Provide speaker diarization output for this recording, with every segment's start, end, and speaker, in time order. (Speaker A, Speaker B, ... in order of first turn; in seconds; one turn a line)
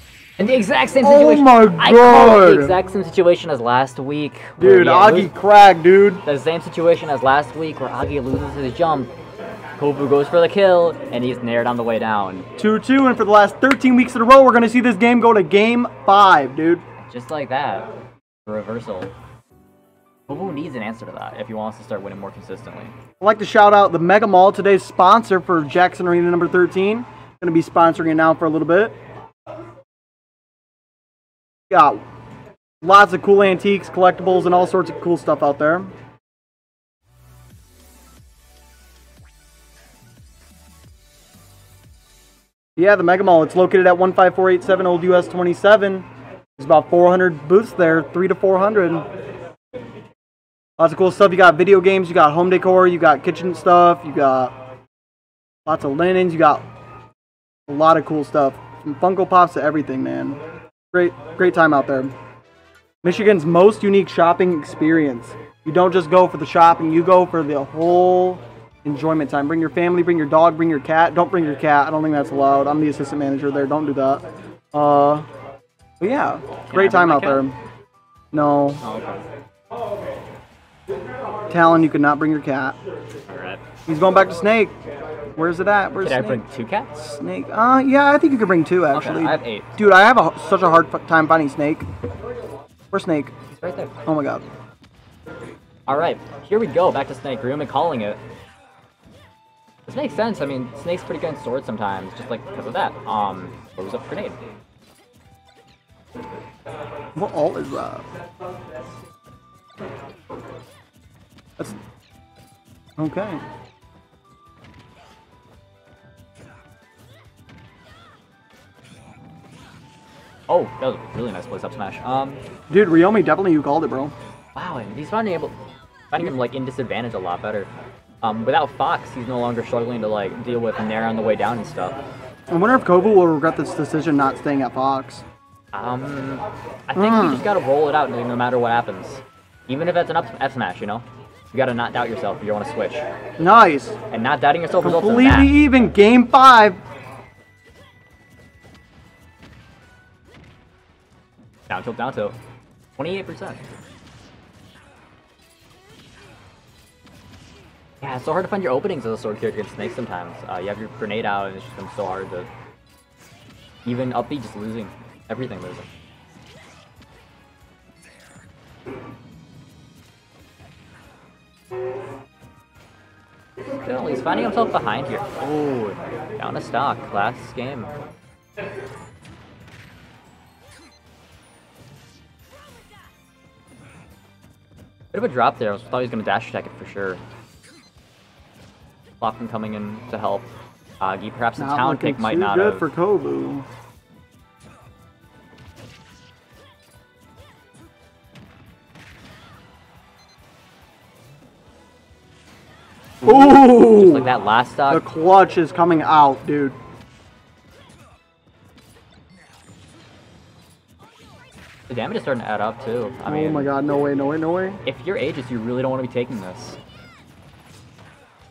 Speaker A: 0.4-5.3
Speaker B: 1.0-2.8
Speaker B: 4.6-6.2
Speaker A: 6.2-9.1
Speaker A: 9.8-12.5
Speaker B: 12.6-16.8
Speaker A: 17.0-17.9
Speaker A: 18.5-19.1
Speaker A: 20.3-22.9
Speaker B: 23.2-29.0
Speaker B: 31.7-32.0
Speaker B: 32.8-35.9
Speaker B: 42.8-49.1
Speaker B: 50.8-54.5
Speaker B: 55.7-56.6
Speaker B: 57.7-60.4
Speaker B: 60.9-62.1
Speaker B: 63.0-75.2
Speaker B: 76.0-77.6
Speaker A: 76.7-77.5
Speaker B: 78.3-78.8
Speaker A: 78.8-79.2
Speaker B: 81.5-82.8
Speaker A: 83.3-83.6
Speaker B: 83.9-84.7
Speaker B: 85.3-86.4
Speaker A: 86.0-87.1
Speaker B: 87.1-91.8
Speaker A: 88.9-89.7
Speaker B: 92.9-93.3
Speaker A: 93.5-94.0
Speaker B: 94.1-94.5
Speaker A: 95.9-98.2
Speaker A: 99.9-104.4
Speaker B: 107.2-108.1
Speaker B: 113.0-113.4
Speaker A: 120.5-122.4
Speaker B: 122.7-124.1
Speaker A: 124.5-125.5
Speaker A: 126.1-127.7
Speaker A: 128.2-132.0
Speaker B: 132.5-135.2
Speaker A: 135.7-143.1
Speaker B: 136.9-137.5
Speaker B: 143.4-144.0
Speaker A: 144.1-145.6
Speaker B: 144.8-146.8
Speaker A: 151.7-152.4
Speaker A: 153.0-153.6
Speaker A: 158.0-162.5
Speaker A: 163.8-165.9
Speaker A: 173.7-177.9
Speaker A: 185.1-187.2
Speaker A: 189.2-190.5
Speaker A: 191.0-192.9
Speaker B: 191.6-193.7
Speaker B: 203.2-204.3
Speaker A: 203.2-205.0
Speaker B: 204.9-206.8
Speaker A: 211.9-213.7
Speaker B: 213.3-214.8
Speaker A: 214.8-216.8